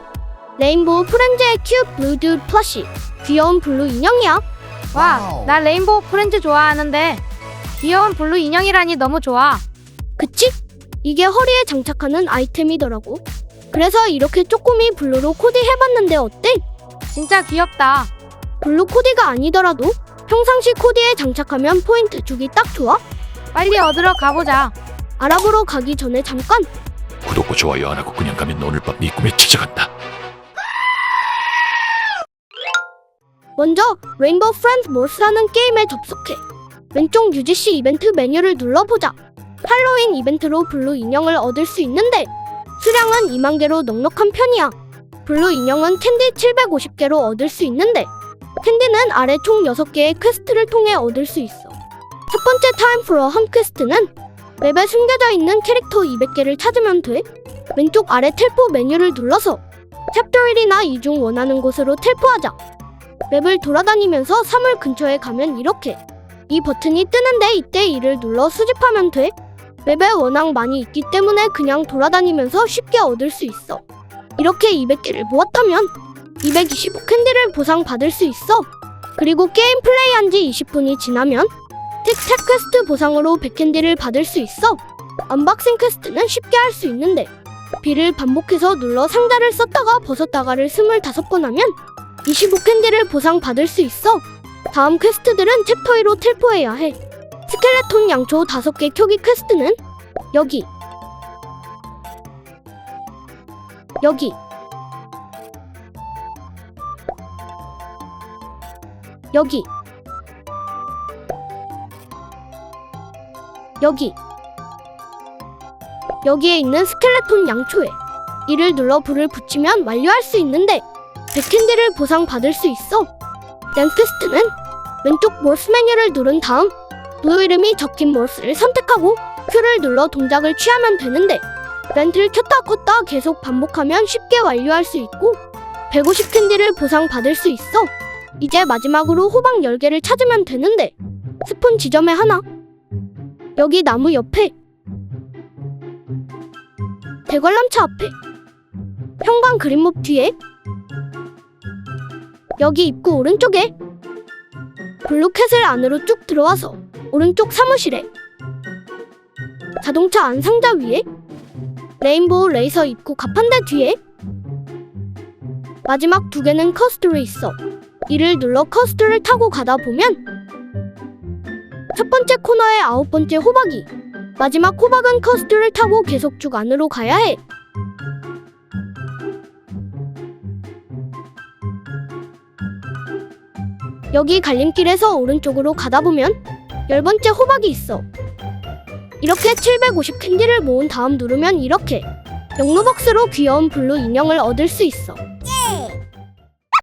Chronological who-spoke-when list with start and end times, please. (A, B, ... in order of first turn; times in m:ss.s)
0:00.6-0:04.4 A
0:04.9-0:07.2 B
0:07.8-0:09.6 B
0:10.2-0:16.6 A
0:17.1-0:18.1 B
0:18.6-0:23.0 A
0:23.5-0:24.7 B
0:25.2-0:26.7 A
0:27.2-0:29.9 C
0:33.6-0:36.4 A
0:36.9-0:48.1 A
0:48.6-0:51.8 A
0:52.3-1:02.6 A
1:03.3-1:09.3 A
1:09.8-1:13.8 A
1:14.4-1:21.5 A
1:22.0-1:37.0 A
1:37.5-1:39.8 A
1:40.3-1:40.7 A
1:44.0-1:44.4 A
1:49.3-1:49.7 A
1:53.8-1:54.2 A
1:56.2-2:03.1 A
2:03.7-2:04.5 A
2:05.0-2:22.4 A
2:23.6-2:24.5 A
2:27.3-2:28.1 A
2:29.2-2:30.3 A
2:32.6-2:33.7 A
2:35.0-2:38.1 A
2:39.8-2:41.0 A
2:42.0-2:44.0 A
2:45.8-2:47.6 A
2:48.1-2:50.2 A
2:51.9-2:57.4 A
3:04.1-3:08.0 A
3:09.2-3:12.0 A
3:12.6-3:15.9 A